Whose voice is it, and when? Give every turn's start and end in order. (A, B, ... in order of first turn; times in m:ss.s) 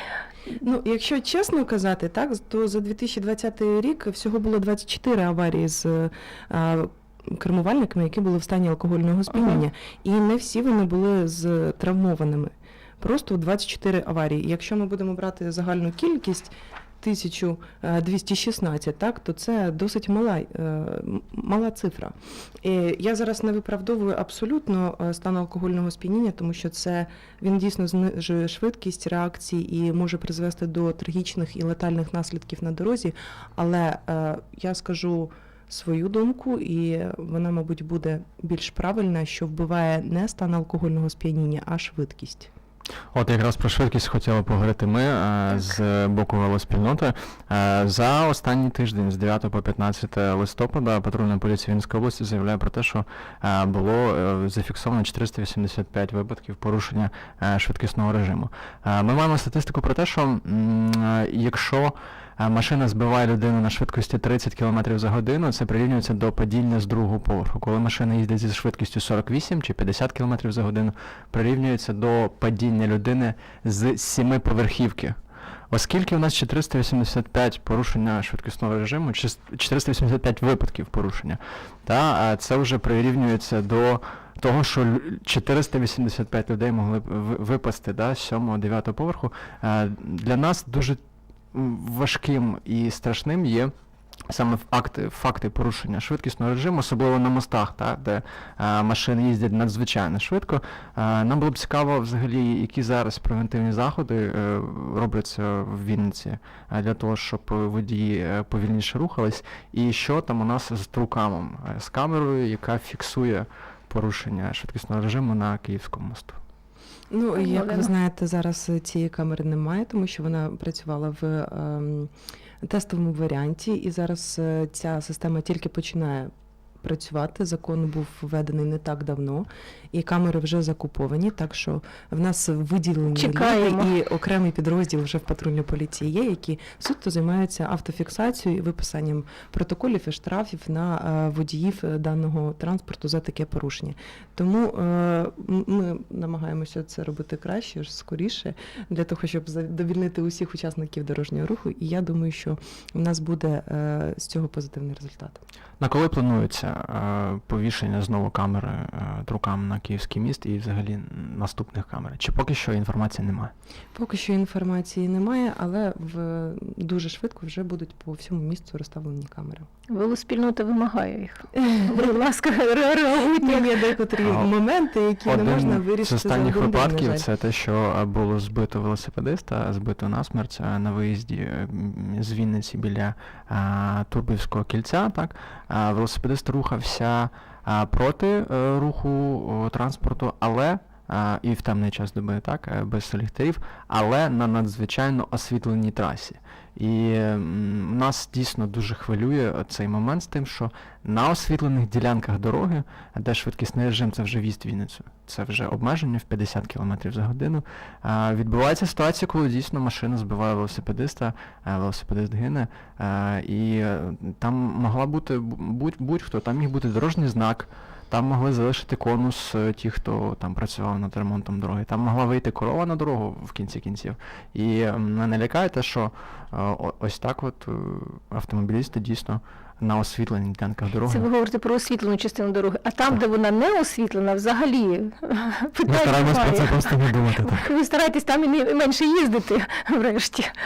0:00.6-0:42.5 A
0:43.1-1:15.2 B
1:15.7-1:31.0 B
1:31.5-1:33.7 B
1:34.3-1:56.4 B
1:57.1-2:02.1 A
1:57.4-1:57.9 C
2:02.6-2:35.4 A
2:13.1-2:13.9 C
2:35.8-2:43.5 B
2:44.0-2:49.7 A
2:49.9-2:53.7 C
2:53.3-2:57.2 A
2:54.2-2:54.5 B
2:55.2-3:51.3 B
3:51.1-3:56.9 C
3:55.9-3:57.6 B
3:57.4-4:00.5 C